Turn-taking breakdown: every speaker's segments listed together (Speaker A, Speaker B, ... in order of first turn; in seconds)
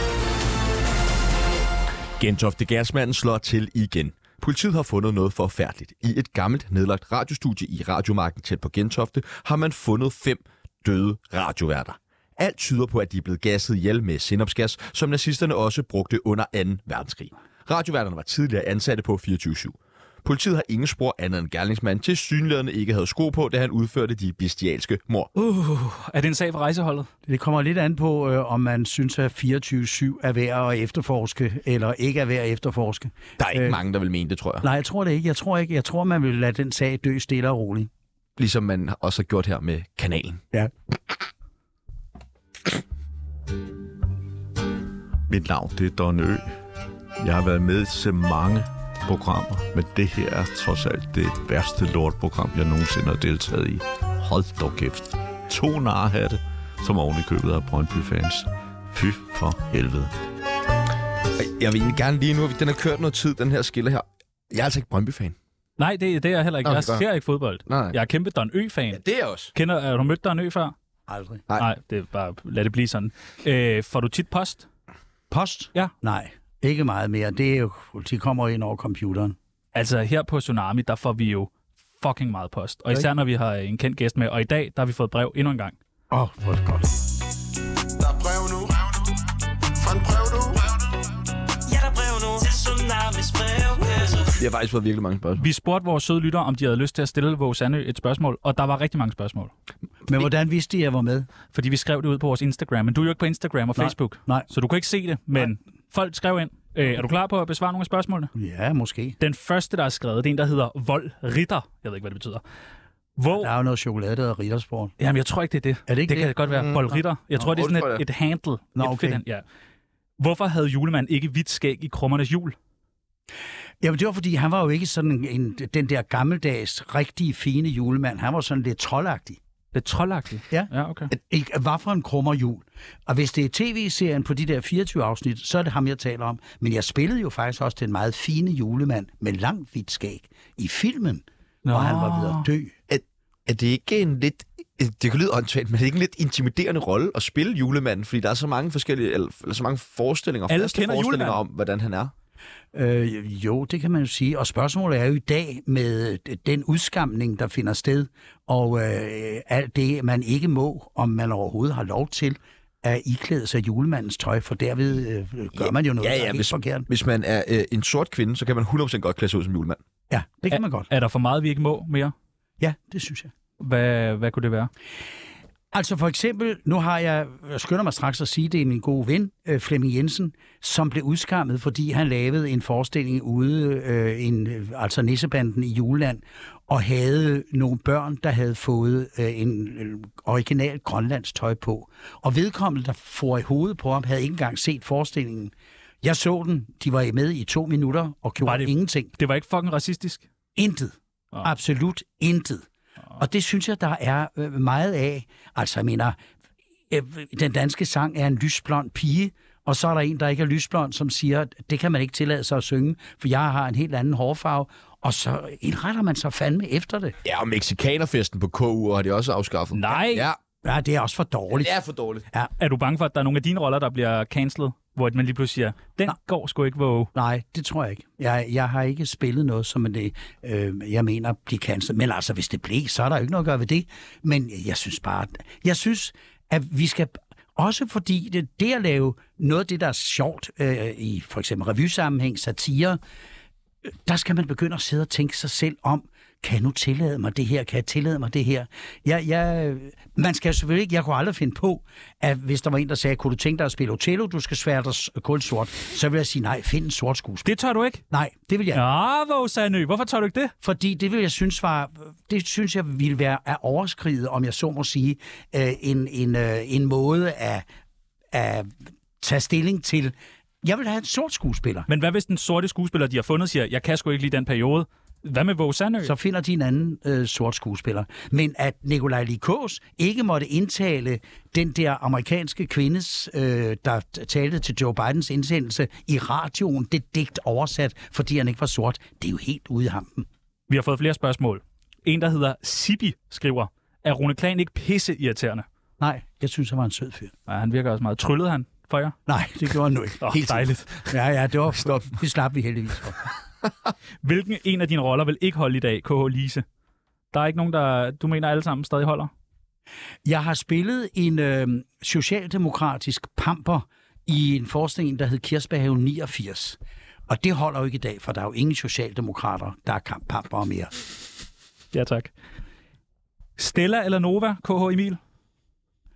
Speaker A: 2.2-25.3, 33.4-34.6, 38.4-40.4, 61.4-65.3, 66.6-67.0, 67.7-68.0, 68.9-69.5, 94.3-95.4, 116.5-116.8, 117.4-118.0, 142.9-152.1, 165.5-169.8, 217.2-220.4, 221.5-222.3, 300.3-300.8
Speaker B: 25.3-27.1, 65.8-69.0, 69.5-70.7, 71.6-74.7, 79.7-85.8, 95.4-99.5, 101.5-108.3, 109.2-112.4, 113.2-113.5, 115.0-119.4, 120.2-122.5, 129.7-131.1, 141.6-142.5, 150.5-151.4, 170.5-172.1, 173.6-174.7, 198.4-200.2, 219.7-220.3, 222.6-227.1, 257.4-258.0, 258.7-260.5, 271.9-276.1, 290.7-295.6, 297.5-299.1, 300.2-301.0, 304.2-306.6, 307.3-309.3, 321.9-322.3, 323.6-325.2
Speaker C: 27.2-33.8, 34.6-37.9, 71.1-71.4, 75.3-79.3, 86.1-86.9, 100.1-101.3, 103.8-104.5, 108.3-109.2, 113.3-114.9, 115.9-116.3, 118.8-119.2, 123.8-129.4, 130.5-142.7, 152.7-166.9, 170.1-170.9, 172.6-173.3, 175.7-199.1, 200.6-202.7, 203.2-206.2, 206.9-217.1, 220.6-221.7, 227.1-243.0, 244.0-257.5, 258.1-258.8, 260.6-267.6, 268.3-271.9, 276.0-290.3, 296.0-297.3, 299.3-300.2, 301.1-303.2, 310.2-320.9
Speaker D: 45.3-46.5, 47.2-60.1
Speaker E: 88.0-88.9, 89.8-90.9
Speaker F: 91.8-94.2